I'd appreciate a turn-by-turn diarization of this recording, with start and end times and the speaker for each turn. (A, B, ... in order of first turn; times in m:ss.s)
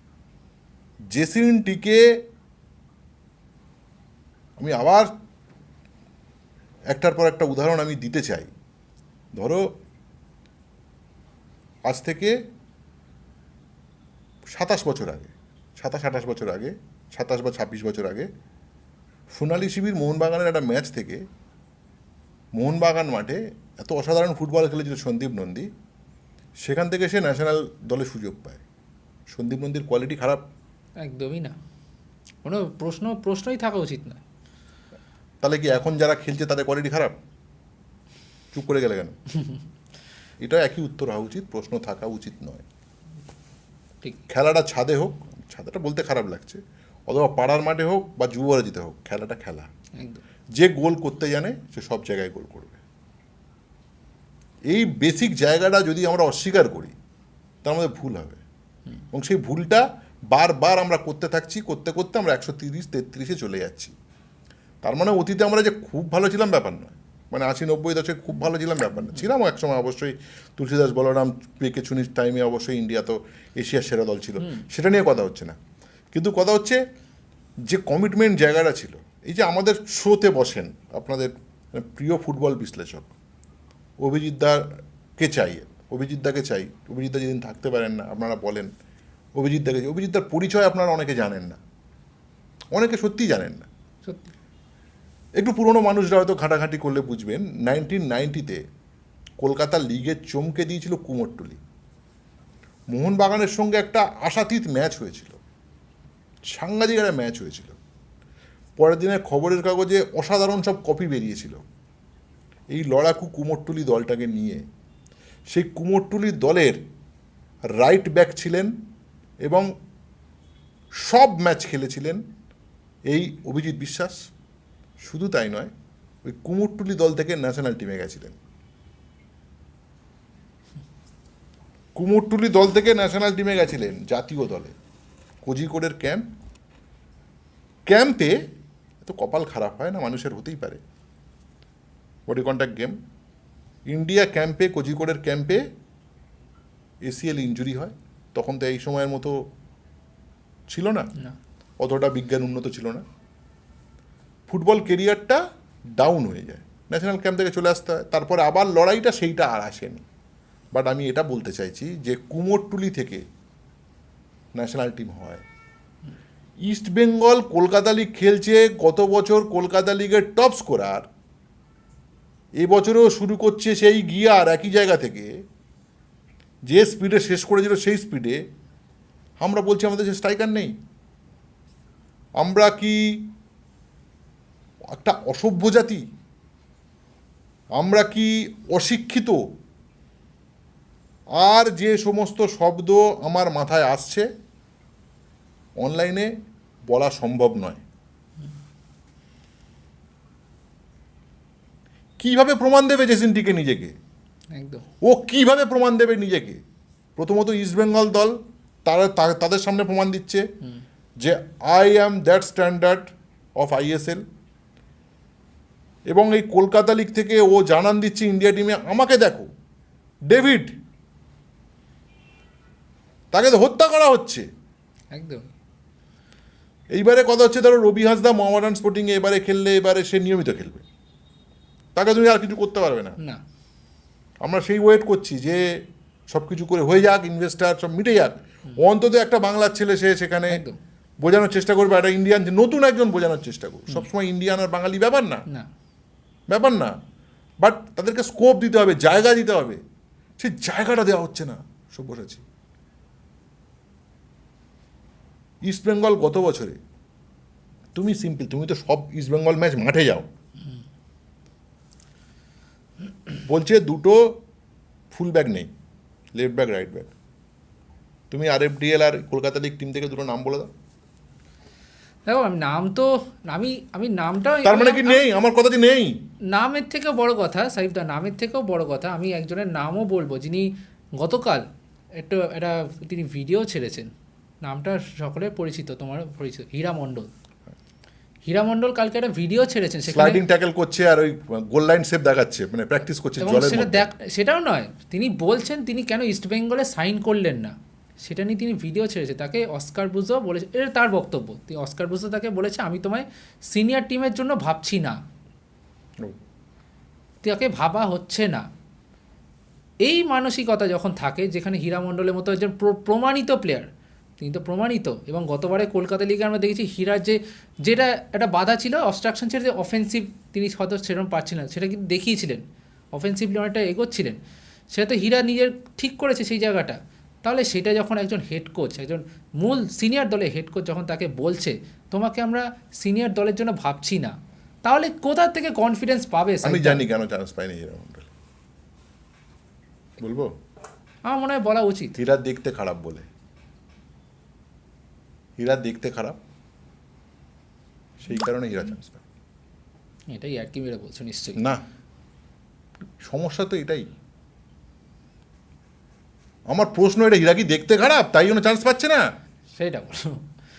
0:01.1-0:02.2 A
0:04.6-0:05.1 A
0:06.9-0:08.5 A
0:09.4-0:09.6 A
0:11.9-0:12.3 A
0:14.5-0:18.3 A
0:19.3-0:21.2 A
0:22.6-0:25.7 A
0:26.6-0:28.6 A
0:29.3-0:30.4 A
0:31.0-0:31.6 B
0:32.4-0:34.2 B
0:35.4-0:37.2 A
0:38.5-0:39.2 A
0:40.4-0:42.6 A
0:44.3-0:49.7 A
0:50.6-0:52.8 A
0:54.7-0:57.0 A
0:57.6-0:58.4 A
0:59.1-1:04.0 A
1:04.8-1:15.6 A
1:16.1-1:16.8 A
1:17.7-1:23.1 A
1:24.0-1:24.6 A
1:25.2-1:28.7 A
1:29.4-1:31.6 A
1:32.7-1:33.7 A
1:34.0-1:34.3 B
1:35.4-1:38.6 A
1:39.4-1:41.6 A
1:42.9-1:45.4 A
1:46.5-1:47.8 A
1:48.8-1:51.6 A
1:52.7-1:54.6 A
1:55.5-1:56.8 A
1:57.8-1:58.7 A
2:01.0-2:02.2 A
2:03.1-2:04.3 A
2:05.0-2:05.7 A
2:06.3-2:08.4 A
2:12.0-2:14.8 A
2:15.4-2:16.2 A
2:17.9-2:18.4 A
2:19.0-2:20.8 A
2:22.3-2:23.0 A
2:23.9-2:25.6 A
2:27.0-2:29.4 A
2:30.7-2:31.1 A
2:31.8-2:33.0 A
2:34.5-2:35.4 A
2:36.0-2:40.0 A
2:40.7-2:43.2 A
2:44.6-2:45.4 A
2:46.6-2:51.1 A
2:52.6-2:55.3 A
2:56.7-2:58.4 A
2:59.4-3:00.7 A
3:02.4-3:03.3 A
3:04.9-3:06.0 A
3:07.8-3:09.4 A
3:11.4-3:14.3 A
3:15.8-3:16.3 A
3:16.9-3:17.8 A
3:22.2-3:24.0 A
3:24.5-3:24.8 B
3:25.0-3:26.6 A
3:27.2-3:30.5 A
3:31.2-3:34.2 A
3:36.1-3:39.5 A
3:40.3-3:40.7 A
3:43.3-3:44.5 A
3:45.1-3:45.5 B
3:46.9-3:50.8 A
3:52.0-3:53.2 A
3:54.4-4:00.6 A
4:00.5-4:00.8 B
4:01.2-4:05.4 A
4:06.5-4:06.9 A
4:07.6-4:09.8 A
4:10.4-4:12.4 A
4:15.6-4:16.8 A
4:18.0-4:20.3 A
4:23.4-4:24.4 A
4:25.1-4:25.7 A
4:26.4-4:27.1 A
4:28.3-4:30.7 A
4:32.3-4:35.2 B
4:34.6-4:36.2 A
4:36.5-4:41.7 B
4:42.2-4:44.1 B
4:44.6-4:47.3 B
4:48.5-4:50.4 B
4:50.1-4:54.1 A
4:53.4-5:05.2 B
5:07.4-5:08.6 B
5:10.0-5:13.9 B
5:14.4-5:22.6 B
5:23.1-5:24.4 B
5:24.9-5:37.0 B
5:36.6-5:38.3 A
5:40.2-5:40.5 A
5:41.3-5:42.2 B
5:42.2-5:43.3 A
5:45.6-5:46.4 A
5:48.2-5:49.2 A
5:50.3-5:51.6 B
5:53.2-5:54.1 A
5:56.7-5:59.2 A
5:59.7-6:00.4 B